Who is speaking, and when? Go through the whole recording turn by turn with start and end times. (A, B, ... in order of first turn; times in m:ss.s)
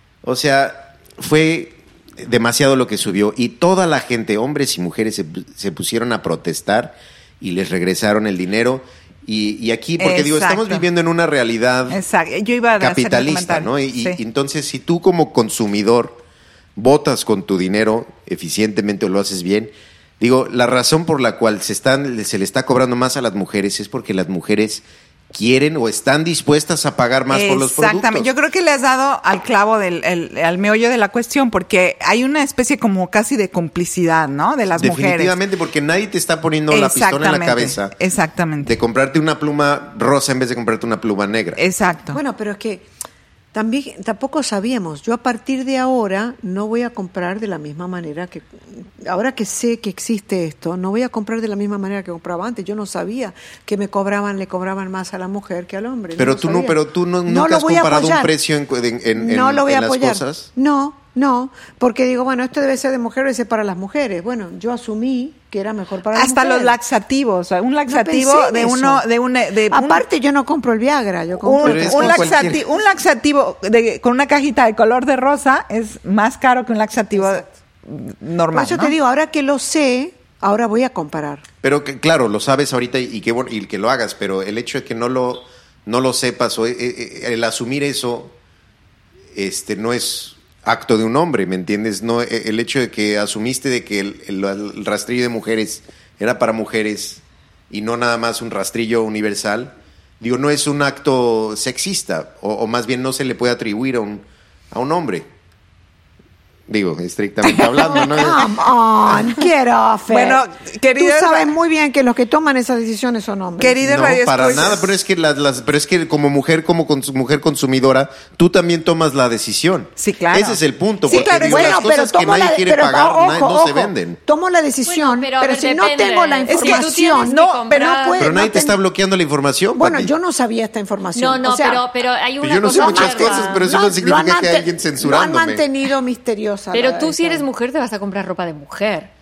0:00.2-0:12.0 A
0:10.0-0:10.9 B
0:11.9-0:14.2 B
0:12.8-0:16.2 A
0:16.8-0:28.3 A
0:27.3-0:35.3 B
0:34.8-0:37.9 A
0:36.7-0:38.8 B
0:38.6-0:41.6 A
0:41.6-0:42.2 B
0:42.1-0:42.9 C
0:43.5-0:58.3 C
0:56.2-1:00.5 A
0:59.2-1:06.8 C
1:06.1-1:10.0 B
1:07.9-1:09.1 C
1:09.7-1:12.6 C
1:11.4-1:18.9 B
1:11.6-1:12.6 A
1:17.2-1:17.5 C
1:18.5-1:21.4 C
1:21.6-1:28.4 A
1:29.3-1:45.3 A
1:46.7-1:48.5 A
1:47.9-1:50.4 C
1:50.1-1:51.5 B
1:51.0-1:53.8 C
1:53.6-1:54.9 B
1:53.8-2:04.2 A
2:00.0-2:01.9 B
2:01.1-2:07.4 C
2:04.8-2:08.2 D
2:06.5-2:08.4 B
2:08.0-2:08.8 C
2:08.2-2:10.1 A
2:09.8-2:11.8 C
2:11.2-2:13.8 D
2:12.4-2:15.6 A
2:12.6-2:17.5 C
2:16.7-2:19.1 D